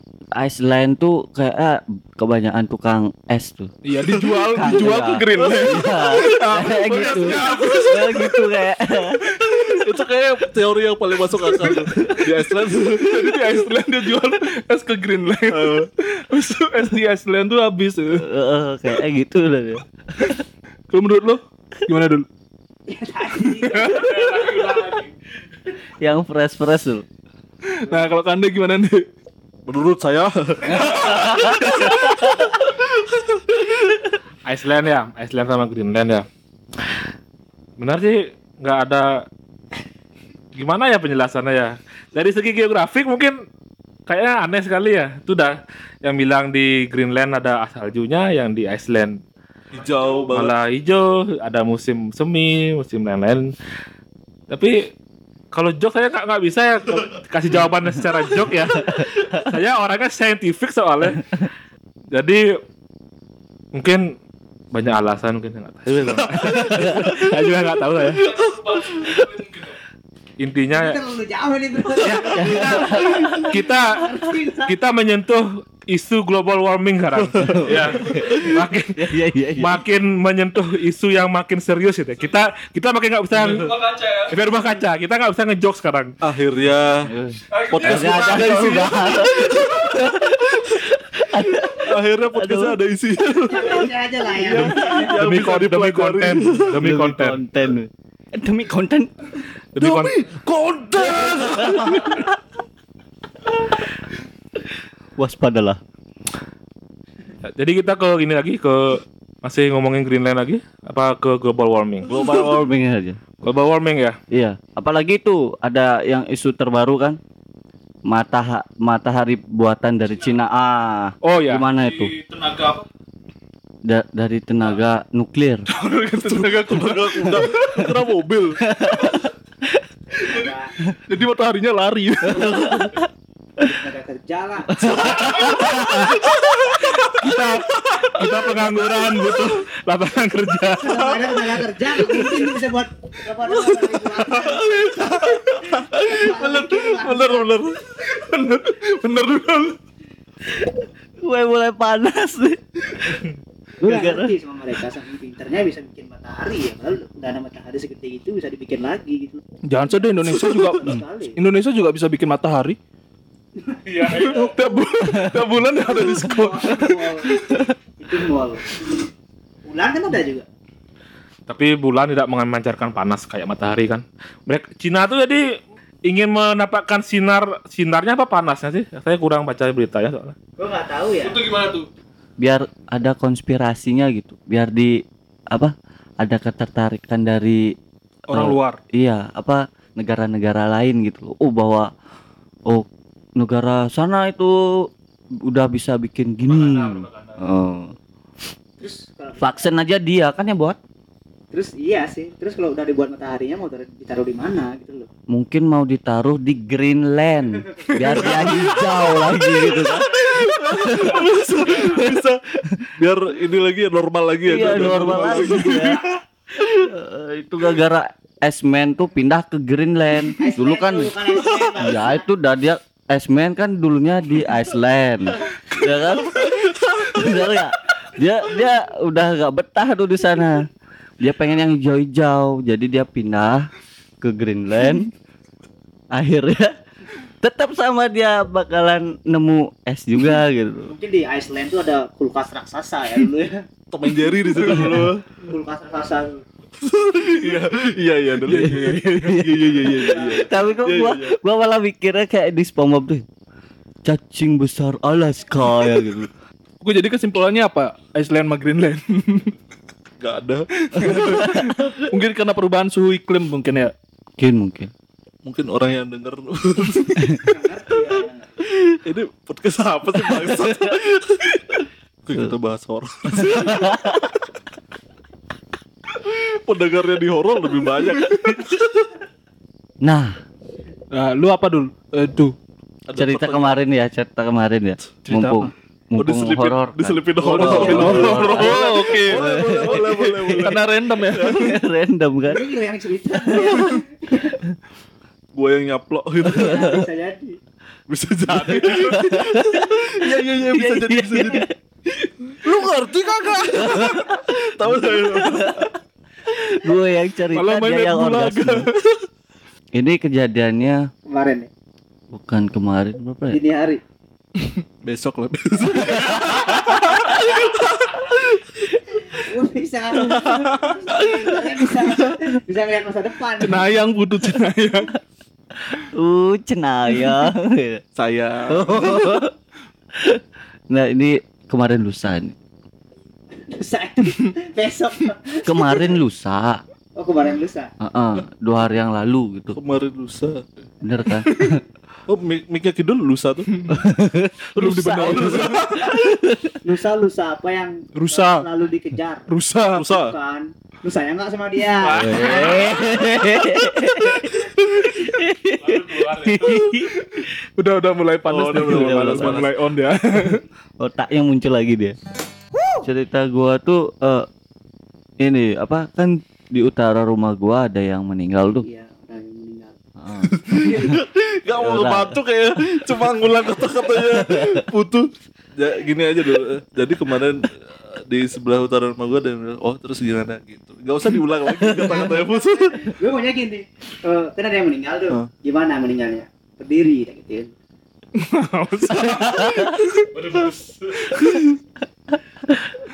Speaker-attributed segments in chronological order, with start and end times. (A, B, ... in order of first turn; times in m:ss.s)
0:00.3-0:03.7 A
0:03.8-0:08.5 B
0:04.0-0:04.4 C
0:04.6-0:09.2 A
0:06.1-0:08.3 C
0:09.5-0:09.7 B
0:09.6-0:13.3 C
0:12.8-0:18.2 B
0:15.5-0:15.9 C
0:18.2-0:20.4 A
0:20.9-0:22.2 B
0:22.9-0:24.8 D
0:23.6-0:24.0 B
0:24.0-0:25.1 E
0:26.0-0:27.0 A
0:27.7-0:29.0 B
0:29.7-0:32.2 C
0:30.7-0:32.1 A
0:34.5-0:36.3 E
0:37.8-0:39.2 E
0:40.6-0:43.4 E
0:44.1-0:49.2 E
0:49.7-0:50.6 C
0:50.3-0:53.5 E
0:54.5-0:54.9 E
0:55.5-1:01.5 E
1:02.1-1:02.4 E
1:03.7-1:04.1 E
1:04.7-1:08.4 E
1:06.3-1:07.3 A
1:08.2-1:09.2 C
1:08.9-1:09.4 A
1:10.4-1:11.0 E
1:10.7-1:14.7 D
1:12.0-1:12.5 E
1:12.4-1:13.5 A
1:13.4-1:19.0 E
1:17.4-1:18.1 C
1:17.4-1:19.8 A
1:19.6-1:26.2 E
1:23.4-1:23.7 C
1:26.2-1:27.1 C
1:27.1-1:32.8 A
1:27.7-1:30.1 C
1:31.8-1:36.8 C
1:33.5-1:35.3 D
1:35.0-1:37.4 E
1:36.8-1:39.1 A
1:39.8-1:40.2 E
1:39.8-1:42.3 C
1:41.1-1:42.3 A
1:45.2-1:45.8 A
1:47.5-1:52.2 E
1:52.1-1:53.2 A
1:53.4-1:54.2 E
1:54.3-1:57.2 A
1:58.1-2:02.2 A
2:01.2-2:01.7 E
2:01.8-2:02.9 B
2:03.8-2:05.6 A
2:05.7-2:07.5 B
2:06.2-2:08.6 C
2:08.7-2:09.8 A
2:10.2-2:10.7 D
2:11.1-2:12.7 B
2:12.3-2:13.0 A
2:13.6-2:15.5 D
2:14.8-2:16.8 A
2:17.1-2:21.3 E
2:17.9-2:18.2 C
2:20.7-2:27.5 D
2:24.5-2:27.8 C
2:28.0-2:29.8 B
2:30.6-2:32.6 A
2:33.8-2:39.4 D
2:33.8-2:34.4 A
2:39.7-2:42.8 B
2:40.4-2:41.4 D
2:43.6-2:44.5 D
2:43.9-2:44.5 E
2:44.0-2:47.6 B
2:45.8-2:47.4 D
2:48.0-2:48.7 D
2:49.7-2:50.5 D
2:51.5-2:55.4 E
2:56.1-3:00.4 E
3:00.6-3:01.4 D
3:01.2-3:01.9 B
3:02.4-3:05.0 A
3:05.5-3:07.7 A
3:08.3-3:08.8 B
3:08.3-3:11.9 A
3:12.7-3:14.9 A
3:15.4-3:17.9 A
3:16.8-3:17.0 E
3:18.8-3:19.7 D
3:19.4-3:20.8 A
3:21.5-3:25.1 D
3:25.3-3:32.3 A
3:27.8-3:28.4 D
3:28.0-3:32.4 C
3:33.0-3:36.2 C
3:34.4-3:50.7 A
3:40.4-3:42.3 D
3:46.4-3:47.4 C
3:51.2-3:53.7 A
3:54.2-3:55.1 A
3:56.1-3:56.7 A
3:57.4-4:00.9 A
4:00.9-4:03.6 D
4:03.9-4:05.2 C
4:04.6-4:06.4 D
4:04.8-4:05.0 A
4:06.8-4:11.3 C
4:08.4-4:09.3 B
4:08.5-4:13.2 A
4:09.8-4:10.9 D
4:14.0-4:16.3 A
4:16.8-4:19.5 B
4:20.2-4:21.6 C
4:20.9-4:23.9 B
4:21.0-4:21.9 A
4:24.4-4:24.9 A
4:25.4-4:27.5 C
4:27.2-4:27.4 A
4:27.4-4:28.6 D
4:29.0-4:31.5 C
4:30.2-4:31.0 A
4:32.2-4:34.2 C
4:33.3-4:34.2 A
4:36.2-4:39.1 C
4:40.0-4:40.4 A
4:41.1-4:42.5 B
4:43.1-4:43.8 C
4:43.1-4:50.7 A
4:45.2-4:45.7 B
4:46.2-4:51.8 C
4:47.4-4:49.5 B
4:47.6-4:48.6 D
4:50.6-4:51.8 B
4:51.5-4:52.7 A
4:52.5-4:54.6 D
4:55.5-4:57.0 C
4:56.5-4:57.6 D
4:56.6-4:56.9 A
4:58.1-5:01.7 C
4:58.5-4:59.2 B
4:58.7-5:01.7 A
5:02.6-5:05.9 C
5:03.7-5:05.9 A
5:06.5-5:08.9 A
5:07.5-5:09.2 B
5:10.0-5:11.1 A
5:11.3-5:11.7 D
5:12.3-5:13.6 A
5:13.5-5:14.0 D
5:15.0-5:18.2 C
5:16.1-5:17.1 A
5:19.4-5:23.9 D
5:20.2-5:21.0 C
5:23.6-5:25.1 B
5:25.9-5:28.0 A
5:28.2-5:29.4 C
5:28.7-5:29.5 A
5:30.1-5:32.6 A
5:33.6-5:36.2 D
5:35.6-5:36.8 A
5:37.2-5:37.9 D
5:38.0-5:39.8 A
5:39.7-5:40.6 C
5:41.0-5:41.8 A
5:42.3-5:43.7 C
5:43.9-5:46.8 A
5:44.8-5:45.8 B
5:45.2-5:46.1 C
5:46.8-5:52.4 D
5:48.2-5:48.7 B
5:49.5-5:50.0 B
5:50.0-5:50.3 C
5:52.0-5:53.4 E
5:52.2-5:57.2 A
5:55.9-5:56.6 E
5:56.8-6:00.6 B
5:58.5-5:59.8 C
5:58.8-5:59.7 A
6:01.0-6:02.2 A
6:03.0-6:04.5 A
6:05.4-6:08.8 A
6:08.8-6:10.0 D
6:10.2-6:11.2 A
6:10.4-6:23.1 C
6:10.8-6:11.2 D
6:11.8-6:12.4 A
6:13.1-6:14.8 A
6:21.7-6:22.4 A
6:22.3-6:27.7 D
6:28.4-6:29.8 B
6:29.1-6:29.8 C
6:29.3-6:30.0 A
6:30.4-6:31.2 E